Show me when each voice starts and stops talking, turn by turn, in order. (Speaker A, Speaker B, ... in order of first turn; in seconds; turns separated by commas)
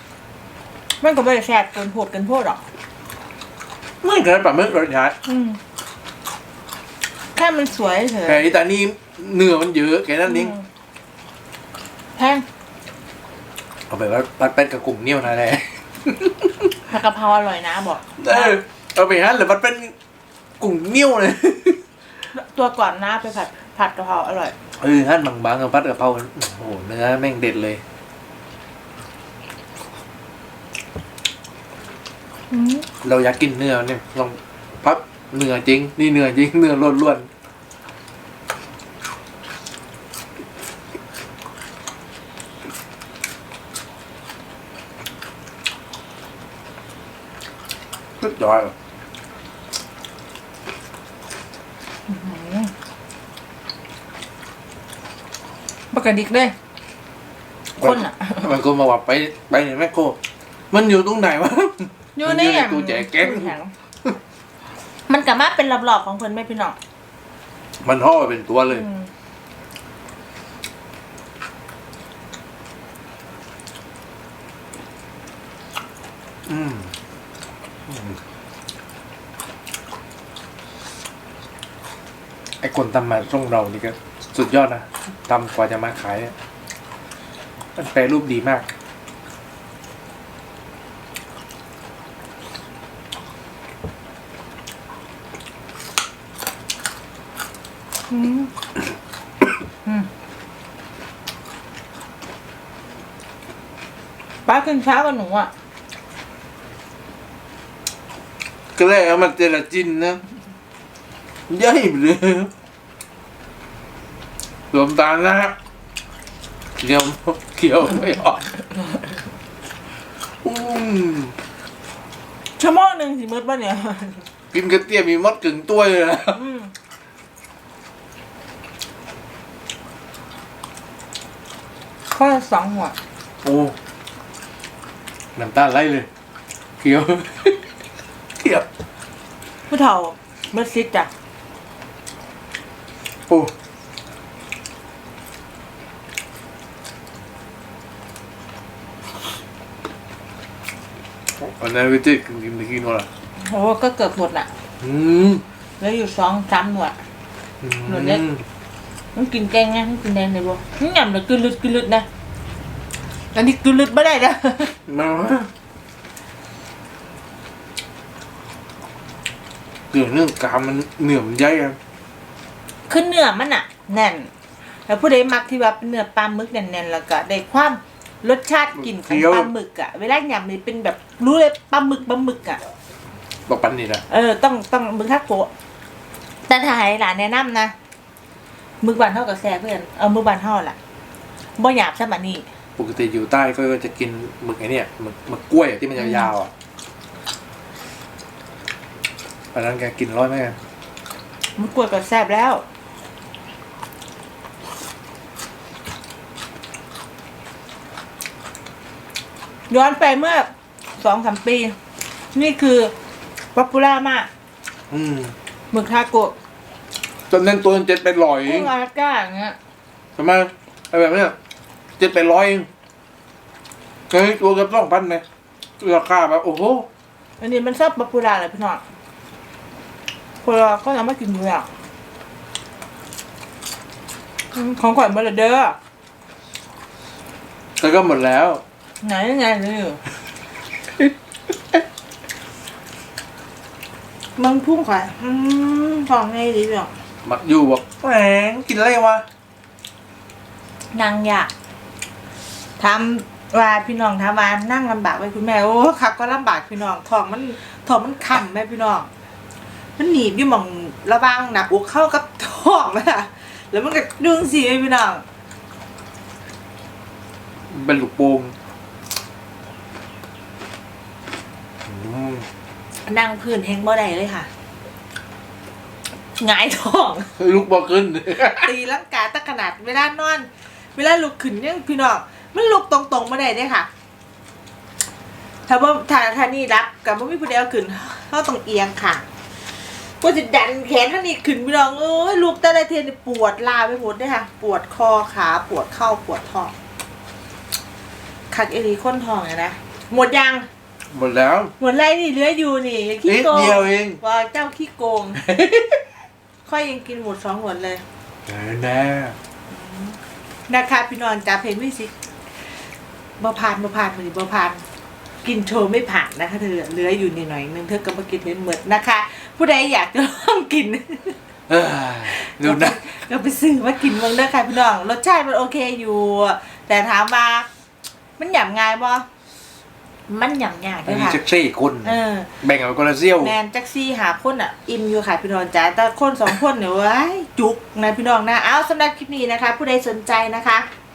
Speaker A: 1.0-2.6, Speaker B: 4.0-5.2, Speaker A: 5.2-5.6, Speaker A: 7.3-8.4, Speaker B: 8.2-10.6, Speaker A: 10.3-10.6, Speaker A: 12.2-12.4, Speaker B: 13.9-16.7, Speaker A: 16.9-18.6, Speaker B: 18.2-19.9, Speaker B: 20.6-21.8, Speaker A: 22.3-24.5, Speaker B: 24.8-27.8, Speaker A: 32.5-32.9, Speaker B: 33.0-37.3, Speaker B: 48.2-48.7, Speaker A: 52.1-52.7, Speaker A: 55.9-56.5, Speaker B: 57.8-60.2, Speaker A: 57.8-58.5, Speaker B: 60.7-63.5, Speaker A: 62.1-63.7, Speaker A: 65.1-66.8, Speaker B: 67.8-68.9, Speaker A: 68.7-69.0, Speaker B: 76.5-76.9, Speaker B: 77.9-78.2, Speaker B: 82.6-86.3, Speaker B: 87.8-88.7, Speaker A: 98.1-98.5, Speaker A: 104.5-105.5, Speaker B: 108.8-110.2, Speaker B: 111.5-112.5, Speaker B: 114.7-115.5, Speaker B: 116.8-118.5, Speaker B: 120.4-121.3, Speaker A: 122.6-124.3, Speaker B: 124.5-126.5, Speaker A: 126.3-126.7, Speaker A: 132.1-132.9, Speaker B: 133.4-133.7, Speaker B: 135.3-136.1, Speaker B: 136.8-137.7, Speaker B: 138.4-138.7, Speaker A: 139.7-141.1, Speaker B: 151.4-153.1, Speaker A: 153.4-154.5, Speaker B: 154.8-155.4, Speaker A: 155.8-157.0, Speaker B: 157.6-158.4, Speaker A: 157.9-158.2, Speaker A: 159.1-162.1, Speaker A: 163.3-164.7, Speaker B: 164.8-165.5, Speaker B: 169.9-171.8, Speaker A: 172.9-182.6, Speaker B: 178.8-179.5, Speaker B: 183.5-184.0, Speaker A: 184.1-185.5, Speaker A: 186.5-187.7, Speaker A: 188.8-190.8, Speaker A: 191.6-192.4, Speaker B: 192.8-196.5, Speaker A: 196.0-196.3, Speaker B: 199.5-200.6, Speaker A: 201.6-202.6, Speaker A: 209.7-211.8, Speaker A: 212.3-212.9, Speaker A: 213.5-214.3, Speaker B: 214.9-215.3, Speaker A: 215.7-216.3, Speaker B: 217.3-218.7, Speaker A: 218.4-219.6, Speaker B: 220.2-221.3, Speaker B: 222.0-222.7, Speaker B: 224.1-225.2, Speaker B: 225.8-226.9, Speaker A: 227.4-228.8, Speaker A: 230.4-231.7, Speaker A: 234.5-235.8, Speaker B: 237.8-238.6, Speaker A: 239.0-240.0, Speaker A: 244.3-246.9, Speaker B: 247.2-249.2, Speaker A: 250.9-251.5, Speaker A: 252.8-259.1, Speaker A: 260.0-265.2, Speaker B: 267.7-268.5, Speaker B: 271.8-272.5, Speaker A: 273.0-274.5, Speaker A: 276.4-277.3, Speaker B: 277.4-278.7, Speaker A: 278.4-283.9, Speaker A: 285.7-289.2, Speaker A: 290.2-296.7, Speaker A: 298.5-300.7, Speaker B: 301.1-301.7, Speaker A: 301.8-305.4, Speaker B: 303.2-304.2, Speaker B: 305.4-306.0, Speaker A: 306.6-308.0, Speaker B: 308.4-309.4, Speaker A: 309.7-310.2, Speaker A: 310.7-312.1, Speaker A: 313.4-314.8, Speaker A: 315.4-321.4, Speaker B: 321.7-323.0, Speaker A: 322.2-327.7, Speaker A: 328.4-329.2, Speaker A: 330.3-331.4, Speaker B: 331.0-333.5, Speaker A: 332.0-332.5, Speaker A: 333.4-340.9